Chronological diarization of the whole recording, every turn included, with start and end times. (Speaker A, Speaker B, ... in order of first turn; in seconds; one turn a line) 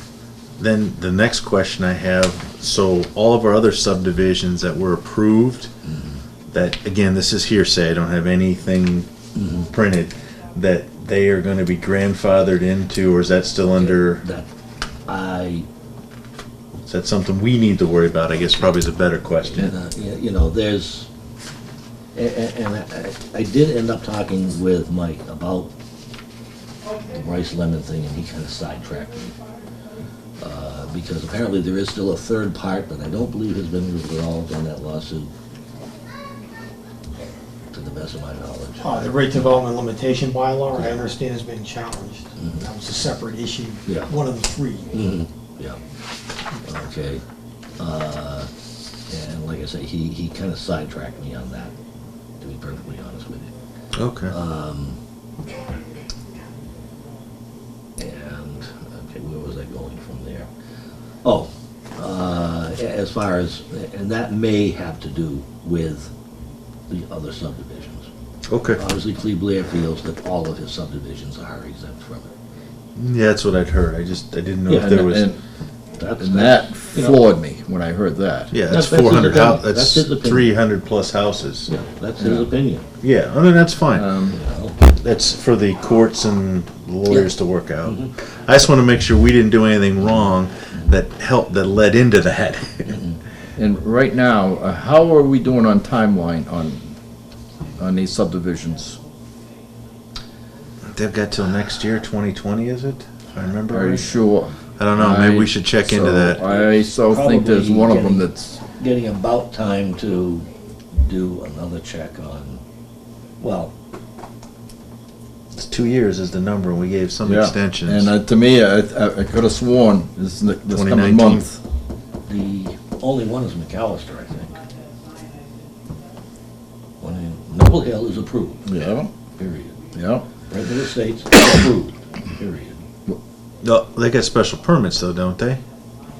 Speaker A: 0.6-5.7
Speaker B: 5.8-6.2
Speaker A: 6.5-9.1
Speaker B: 9.3-9.7
Speaker A: 9.7-14.2
Speaker B: 13.8-14.5
Speaker B: 15.1-15.7
Speaker A: 16.9-19.7
Speaker B: 19.4-21.1
Speaker B: 22.1-25.7
Speaker B: 27.1-29.4
Speaker B: 30.4-35.3
Speaker B: 37.7-39.0
Speaker C: 38.8-44.9
Speaker B: 40.8-41.0
Speaker B: 42.4-42.7
Speaker B: 43.9-44.1
Speaker B: 44.9-45.8
Speaker B: 46.6-47.2
Speaker B: 47.8-48.5
Speaker B: 49.1-51.7
Speaker B: 52.4-53.5
Speaker A: 53.9-54.3
Speaker B: 54.3-55.0
Speaker B: 58.0-60.5
Speaker B: 61.2-66.1
Speaker B: 66.9-68.1
Speaker A: 68.5-68.8
Speaker B: 68.7-72.3
Speaker A: 73.0-75.3
Speaker B: 74.7-75.0
Speaker D: 74.7-75.4
Speaker B: 76.0-77.2
Speaker D: 76.2-78.5
Speaker A: 78.5-81.7
Speaker B: 78.7-80.5
Speaker B: 81.7-82.8
Speaker D: 82.2-82.5
Speaker A: 83.0-84.0
Speaker D: 83.9-84.4
Speaker B: 84.3-84.8
Speaker A: 84.9-93.0
Speaker B: 87.1-87.3
Speaker B: 87.8-88.1
Speaker B: 92.9-93.2
Speaker D: 93.6-96.9
Speaker D: 97.8-99.0
Speaker A: 100.9-104.1
Speaker D: 103.7-108.6
Speaker A: 104.8-106.5
Speaker B: 106.5-112.6
Speaker B: 113.4-113.7
Speaker A: 115.6-118.1
Speaker D: 117.2-121.6
Speaker A: 120.7-121.4
Speaker B: 122.3-124.6
Speaker B: 127.0-128.7
Speaker D: 128.7-129.1
Speaker B: 129.3-129.8
Speaker D: 129.9-130.2
Speaker B: 130.5-132.8
Speaker A: 133.6-135.6